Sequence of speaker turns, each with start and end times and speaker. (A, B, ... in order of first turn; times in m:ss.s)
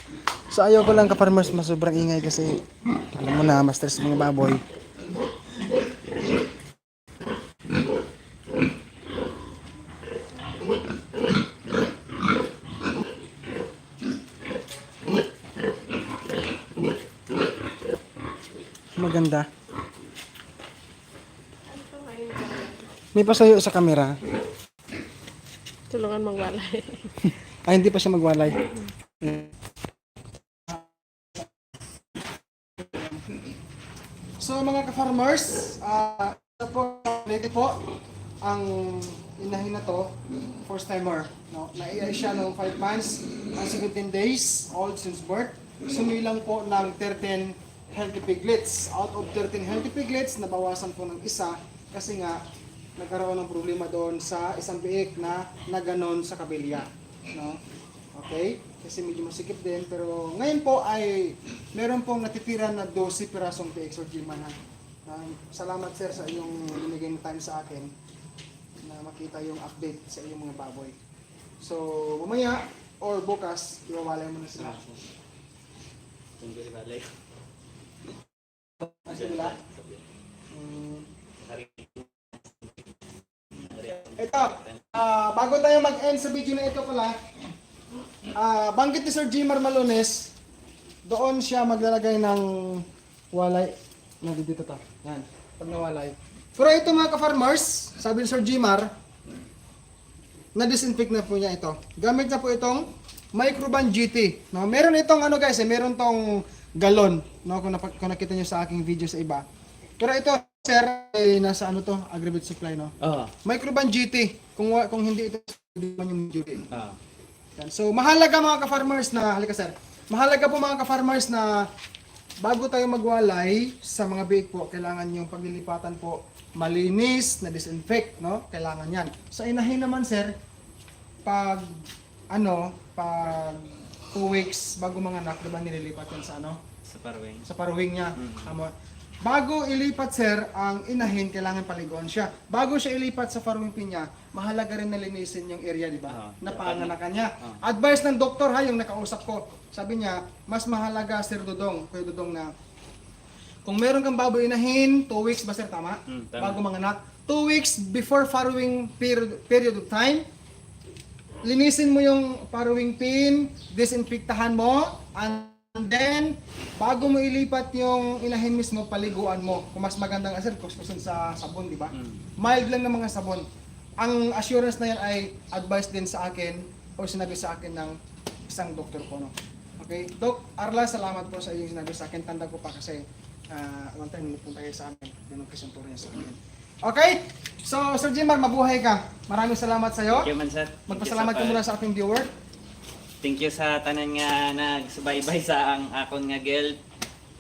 0:00.5-0:04.6 A
0:19.0-0:19.5 A
0:21.7-0:22.8 B
0:23.1-0:24.2 A
0:25.9-0:27.1 B
0:27.6-0:28.6 A
0:29.2-0:29.5 A
0:34.4-0:37.9 A
0:38.4-0:52.4 A
0:53.0-0:57.6 A
0:58.1-1:07.9 A
1:08.8-1:11.0 A
1:11.6-1:15.0 A
1:14.6-1:14.9 C
1:16.4-1:17.1 C
1:18.8-1:19.5 A
1:19.1-1:20.0 C
1:20.5-1:21.0 A
1:21.4-1:22.8 C
1:23.5-1:24.9 C
1:24.0-1:27.2 A
1:28.4-1:30.3 A
1:31.0-1:38.9 A
1:40.6-1:49.4 A
1:50.0-1:56.7 A
1:53.0-1:53.3 C
1:56.7-1:57.0 C
1:57.6-2:01.7 A
2:02.4-2:10.3 A
2:11.2-2:11.7 A
2:12.3-2:16.6 A
2:16.8-2:17.4 C
2:17.4-2:18.7 A
2:18.2-2:18.5 C
2:19.2-2:32.5 A
2:26.1-2:27.6 C
2:33.6-2:40.2 A
2:36.1-2:36.6 C
2:41.4-2:53.4 A
2:51.9-2:52.2 C
2:54.0-2:58.0 A
2:58.5-3:10.3 A
3:10.1-3:11.6 C
3:10.9-3:12.3 A
3:13.2-3:16.8 C